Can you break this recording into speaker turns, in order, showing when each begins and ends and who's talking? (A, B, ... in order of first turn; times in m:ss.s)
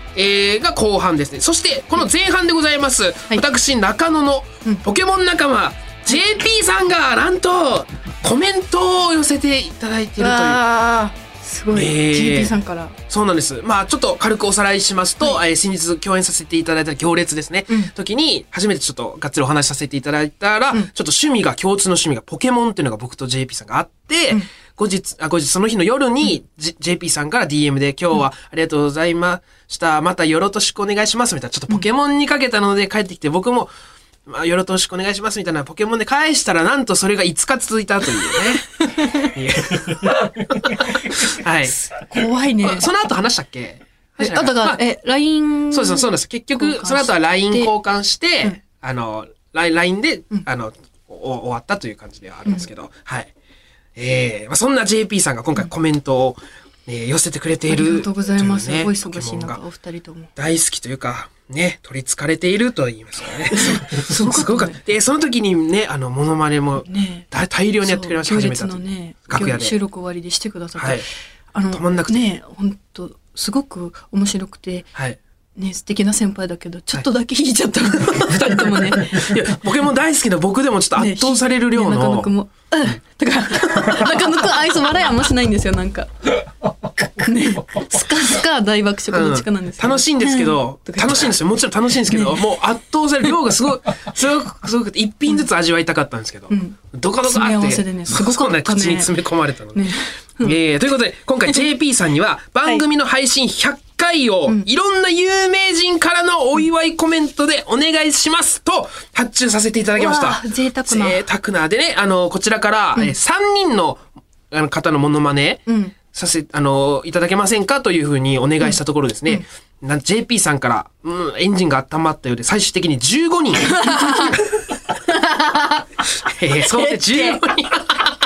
0:00.1-0:10.6 A
0:10.2-0:13.0 B
0:11.7-0:12.6 A
0:13.1-0:33.7 A
0:34.3-0:38.8 A
0:39.0-0:39.3 B
0:39.3-0:40.2 A
0:41.2-0:41.8 A
0:41.7-0:42.9 B
0:42.6-0:44.9 A
0:44.2-0:47.7 B
0:45.7-0:53.3 A
0:54.0-0:59.6 A
0:57.7-1:00.3 B
1:00.4-1:09.7 A
1:03.6-1:04.8 B
1:06.8-1:07.3 B
1:07.8-1:14.9 B
1:10.8-1:11.0 A
1:11.7-1:12.3 A
1:15.6-1:19.3 B
1:18.0-1:22.3 A
1:21.0-1:26.3 B
1:27.1-1:31.4 B
1:29.1-1:39.9 A
1:32.1-1:32.4 B
1:36.5-1:39.2 B
1:39.7-1:40.6 B
1:40.4-2:03.8 A
1:50.0-1:51.2 B
1:55.7-1:55.9 B
1:58.6-1:59.4 B
2:03.8-2:04.4 B
2:05.1-2:05.8 B
2:06.3-2:07.9 A
2:06.7-2:07.4 B